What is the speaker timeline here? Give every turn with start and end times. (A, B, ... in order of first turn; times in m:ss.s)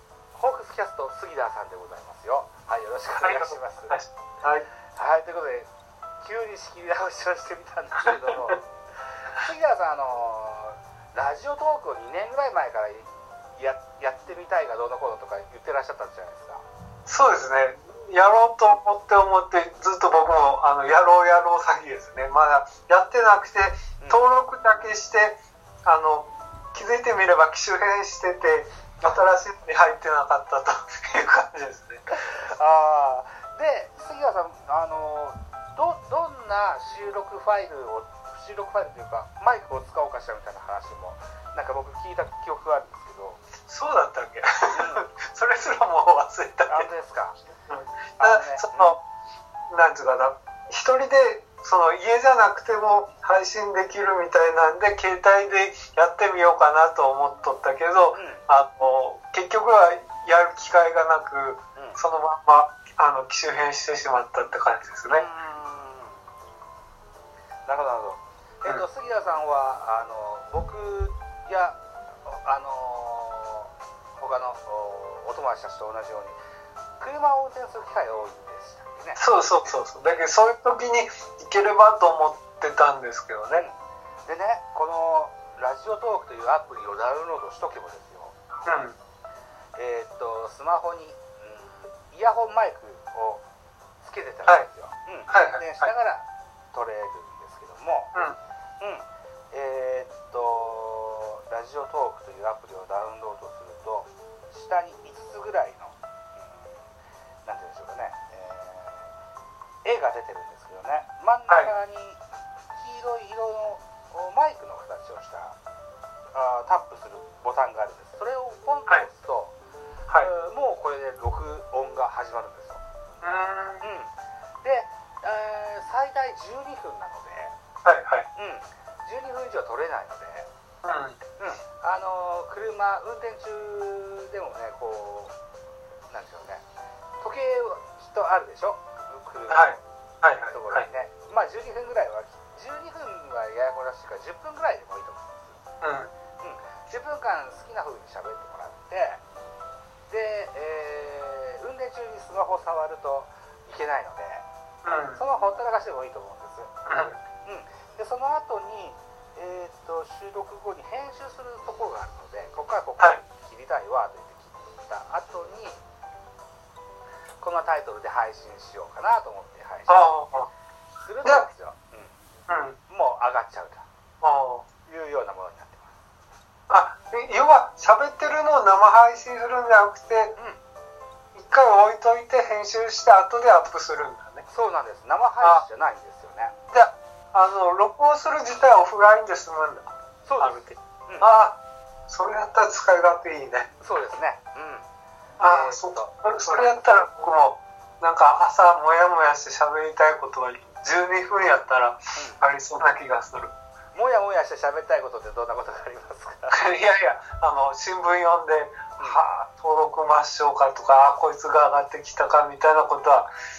0:00.4-0:04.0 A
0:03.2-0:04.7 B
0:04.9-0:05.7 A
0:06.2-0:08.6 A
0:09.2-0:16.6 A
0:17.1-0:32.0 B
0:32.1-0:43.4 A
0:43.7-0:46.9 B
0:44.8-0:45.1 A
0:46.7-0:47.4 A
0:47.7-0:49.0 B
0:48.2-0:49.0 A
0:49.7-1:05.3 B
0:58.2-0:58.4 A
1:05.1-1:06.2 A
1:07.7-1:16.4 A
1:17.0-1:19.2 A
1:19.2-1:23.7 B
1:23.5-1:28.4 A
1:28.7-1:29.0 B
1:29.8-1:33.4 A
1:34.0-1:38.2 A
1:35.3-1:35.9 B
1:38.8-1:46.8 A
1:47.4-1:49.1 A
1:49.8-1:52.2 A
1:52.7-1:55.6 A
1:56.3-1:59.6 A
2:00.2-2:02.8 A
2:03.2-2:03.9 B
2:03.8-2:07.6 A
2:07.8-2:08.3 B
2:08.4-2:10.5 A
2:10.8-2:11.2 B
2:11.4-2:15.4 A
2:16.1-2:16.6 A
2:17.2-2:19.8 A
2:19.5-2:20.9 B
2:20.5-2:25.6 A
2:25.8-2:26.1 B
2:26.4-2:29.2 A
2:30.1-2:34.5 A
2:34.8-2:35.2 B
2:35.2-2:45.8 A
2:36.9-2:37.2 B
2:47.4-2:50.3 A
2:49.9-2:50.5 B
2:51.0-2:52.2 A
2:52.5-2:52.8 B
2:52.9-2:53.9 A
2:54.2-2:54.7 B
2:54.9-2:55.9 A
2:56.7-3:00.4 B
3:01.4-3:04.5 B
3:04.5-3:06.6 A
3:06.7-3:13.7 B
3:10.2-3:11.3 A
3:13.8-3:14.9 A
3:15.4-3:16.8 A
3:15.4-3:23.6 B
3:23.9-3:26.6 A
3:26.5-3:33.3 B